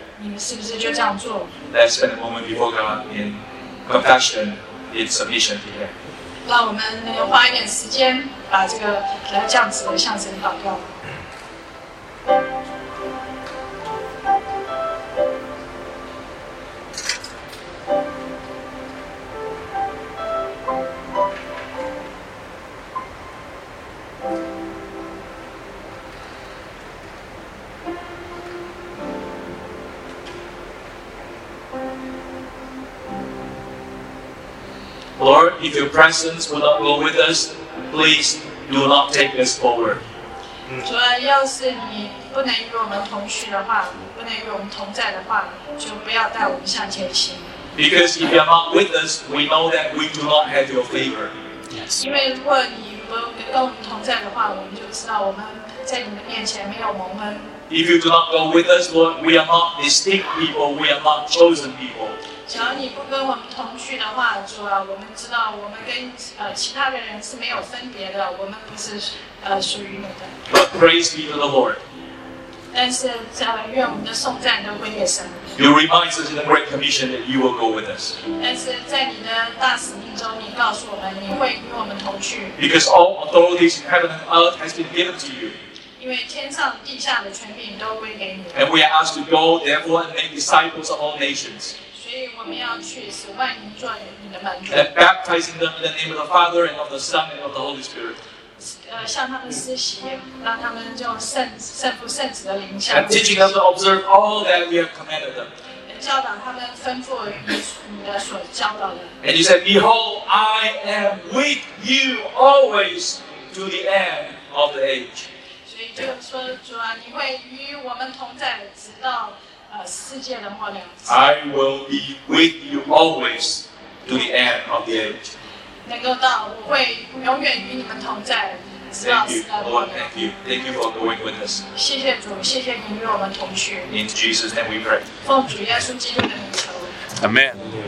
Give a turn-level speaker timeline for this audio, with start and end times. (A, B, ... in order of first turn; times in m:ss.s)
0:00.2-0:01.5 A
0:01.7-0:05.9 B
0:06.5-0:10.9 A
0:35.2-0:40.0 B
0:40.7-0:47.5 A
0:47.8-0:51.3 B
0:51.9-0:57.6 A
0:57.7-1:02.2 B
1:02.5-1:10.4 A
1:10.5-1:11.8 B
1:12.7-1:15.5 A
1:15.6-1:18.2 B
1:18.2-1:22.6 A
1:22.6-1:25.5 B
1:26.0-1:28.7 A
1:28.5-1:31.8 B
1:31.9-1:34.8 A
1:34.7-1:38.2 B
1:38.6-1:43.6 A
1:42.9-1:45.5 B
1:45.9-1:49.2 A
1:49.2-1:55.3 B
1:55.7-2:01.1 A
2:01.1-2:05.3 B
2:05.9-2:10.1 A
2:09.0-2:11.6 B
2:11.7-2:13.9 A
2:13.9-2:15.1 B
2:15.2-2:16.9 A
2:17.2-2:17.5 B